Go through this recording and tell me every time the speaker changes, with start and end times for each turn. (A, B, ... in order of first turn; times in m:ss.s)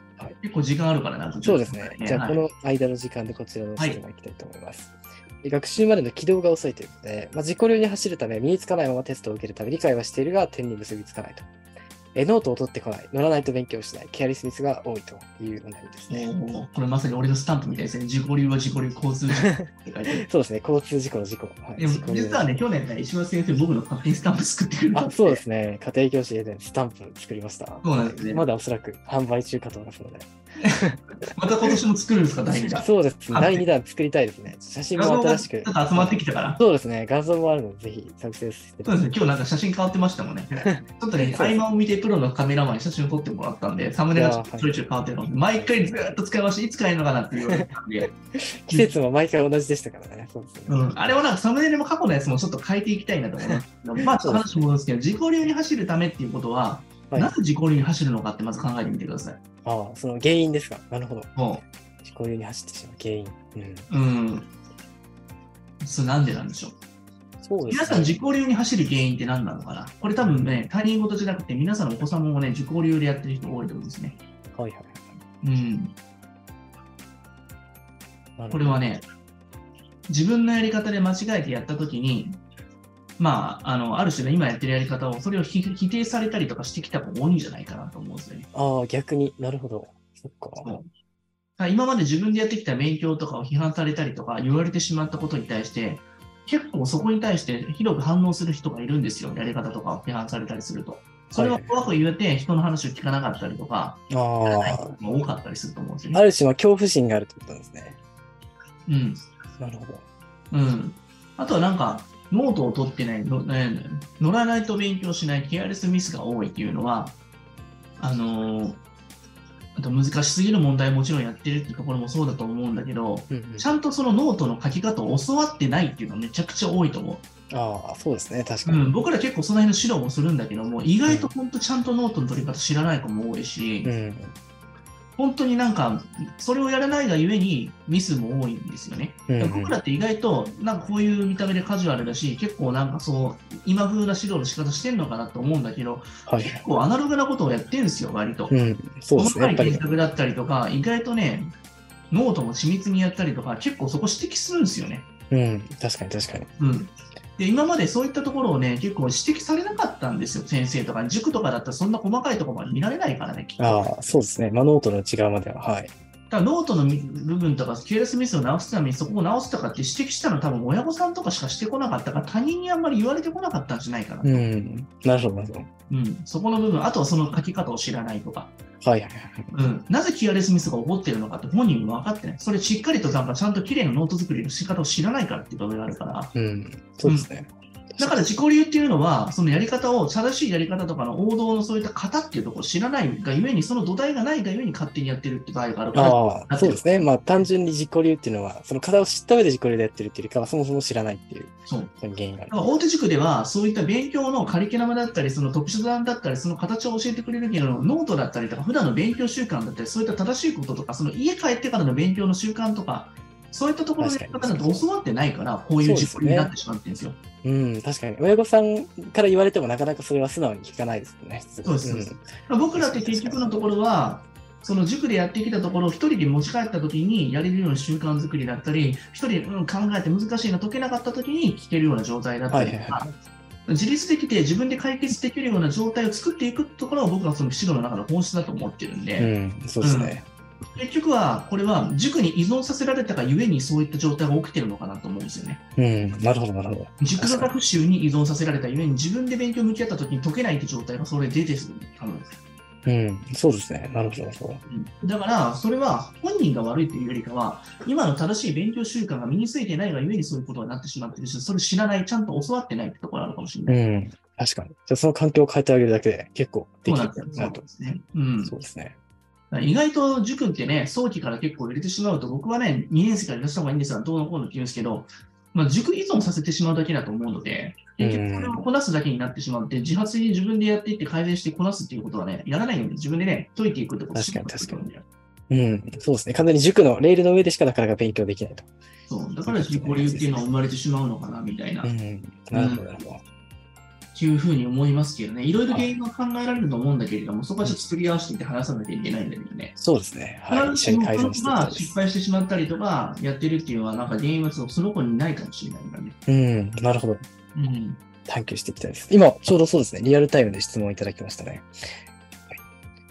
0:00.4-0:02.4 A
0:01.4-0:11.5 B
0:12.1-0:16.3 B
0:16.1-0:20.2 A
0:19.4-0:19.7 B
0:20.2-0:22.6 B
0:21.8-0:25.4 A
0:24.9-0:31.7 B
0:27.8-0:28.4 A
0:31.3-0:33.6 A
0:32.8-0:39.0 B
0:35.0-0:36.6 A
0:38.8-0:48.1 A
0:40.6-0:41.6 B
0:44.1-0:44.8 B
0:45.5-0:46.2 B
0:48.4-0:50.9 B
0:50.7-0:59.4 A
0:53.5-0:54.7 B
0:57.1-0:57.3 B
0:59.6-1:01.3 B
1:01.4-1:01.6 A
1:02.0-1:03.9 B
1:03.9-1:04.5 A
1:05.8-1:06.8 A
1:07.4-1:08.2 B
1:07.7-1:14.2 A
1:10.2-1:10.6 B
1:14.5-1:15.2 B
1:15.4-1:16.0 A
1:18.4-1:18.8 B
1:18.5-1:19.0 A
1:20.1-1:22.4 A
1:23.2-1:28.5 A
1:28.5-1:30.7 B
1:30.6-1:30.9 A
1:31.6-1:46.2 A
1:41.4-1:41.8 B
1:44.1-1:45.0 B
1:46.1-1:48.0 B
1:48.9-1:49.2 A
1:49.6-1:50.0 B
1:50.5-1:57.2 A
1:58.0-1:58.8 A
1:59.8-2:07.2 A
2:03.3-2:03.7 B
2:07.5-2:08.9 B
2:08.6-2:13.9 A
2:11.0-2:11.3 B
2:13.8-2:14.4 B
2:15.2-2:28.5 A
2:19.3-2:19.8 B
2:26.2-2:26.6 B
2:28.5-2:29.8 B
2:29.1-2:31.5 A
2:32.1-2:35.1 A
2:35.3-2:36.5 B
2:36.6-2:44.2 A
2:43.6-2:45.9 B
2:46.3-2:54.5 A
2:54.2-2:55.7 B
2:55.9-2:58.5 A
2:58.8-2:59.5 B
2:59.5-3:06.3 A
3:06.3-3:08.3 B
3:07.0-3:07.3 A
3:08.0-3:16.8 A
3:15.9-3:22.6 B
3:22.5-3:37.2 A
3:34.0-3:34.8 B
3:35.8-3:36.5 B
3:37.4-3:43.7 B
3:41.6-3:53.0 A
3:52.5-3:53.2 B
3:53.7-4:00.2 A
3:59.2-4:00.2 B
4:00.7-4:05.6 A
4:05.8-4:07.5 B
4:07.0-4:12.3 A
4:12.8-4:14.6 B
4:14.7-4:23.8 A
4:23.7-4:27.6 B
4:26.8-4:28.5 A
4:28.4-4:29.0 B
4:29.5-4:45.0 A
4:38.0-4:38.6 B
4:44.1-4:44.9 B
4:45.5-4:48.7 B
4:49.1-4:51.9 A
4:49.4-4:50.4 B
4:51.8-4:53.2 B
4:52.5-4:52.9 A
4:54.1-4:59.7 A
4:55.7-4:55.9 B
4:59.8-5:02.0 B
5:00.5-5:06.2 A
5:06.3-5:07.2 B
5:07.5-5:08.0 A
5:08.2-5:11.7 B